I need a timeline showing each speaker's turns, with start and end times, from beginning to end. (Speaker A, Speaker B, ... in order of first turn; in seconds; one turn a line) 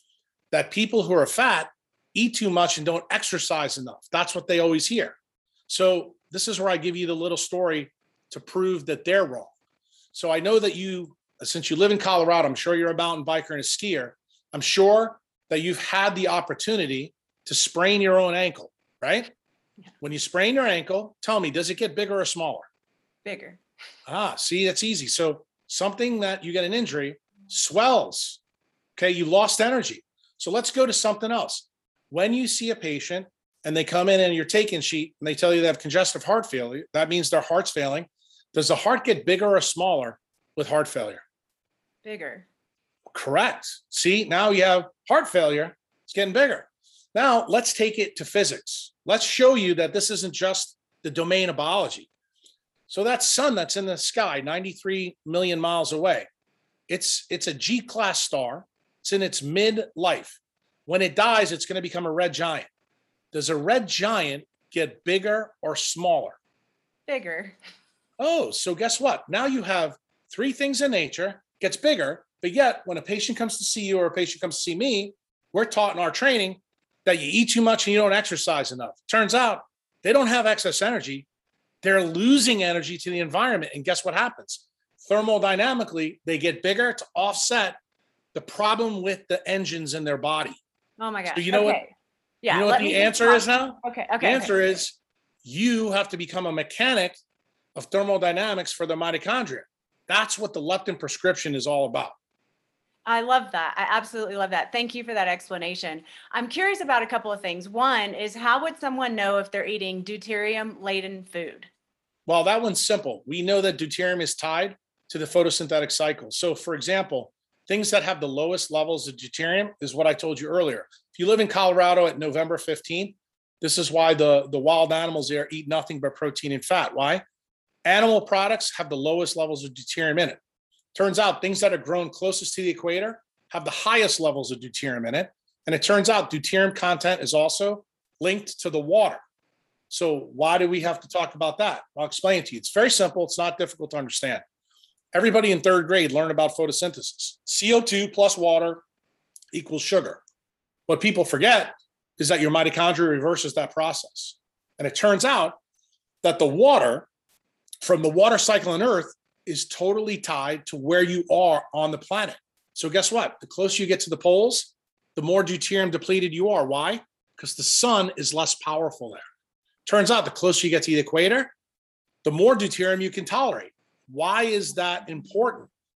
Speaker A: 0.5-5.2
Speaker A: 5.7-9.5
Speaker A: 10.1-19.3
Speaker A: 20.0-22.7
Speaker B: 23.2-23.6
Speaker A: 24.1-28.4
Speaker A: 29.0-41.2
Speaker B: 42.0-42.5
Speaker A: 43.1-52.1
Speaker A: 52.9-56.3
Speaker A: 56.9-62.7
Speaker A: 63.3-66.4
Speaker B: 67.1-67.6
Speaker A: 68.2-81.3
Speaker A: 81.8-87.8
Speaker A: 88.3-90.6
Speaker B: 91.0-91.9
Speaker A: 91.3-91.8
Speaker B: 92.4-94.5
Speaker A: 92.5-97.2
Speaker A: 97.8-102.2
Speaker B: 103.1-111.7
Speaker A: 112.3-127.2
Speaker A: 127.8-130.4
Speaker A: 130.9-139.2
Speaker A: 139.9-144.4
Speaker A: 145.1-148.8
Speaker A: 149.5-150.2
Speaker A: 150.9-155.6
Speaker A: 156.2-157.1
Speaker A: 157.8-169.2
Speaker A: 169.9-171.5
Speaker A: 172.2-175.7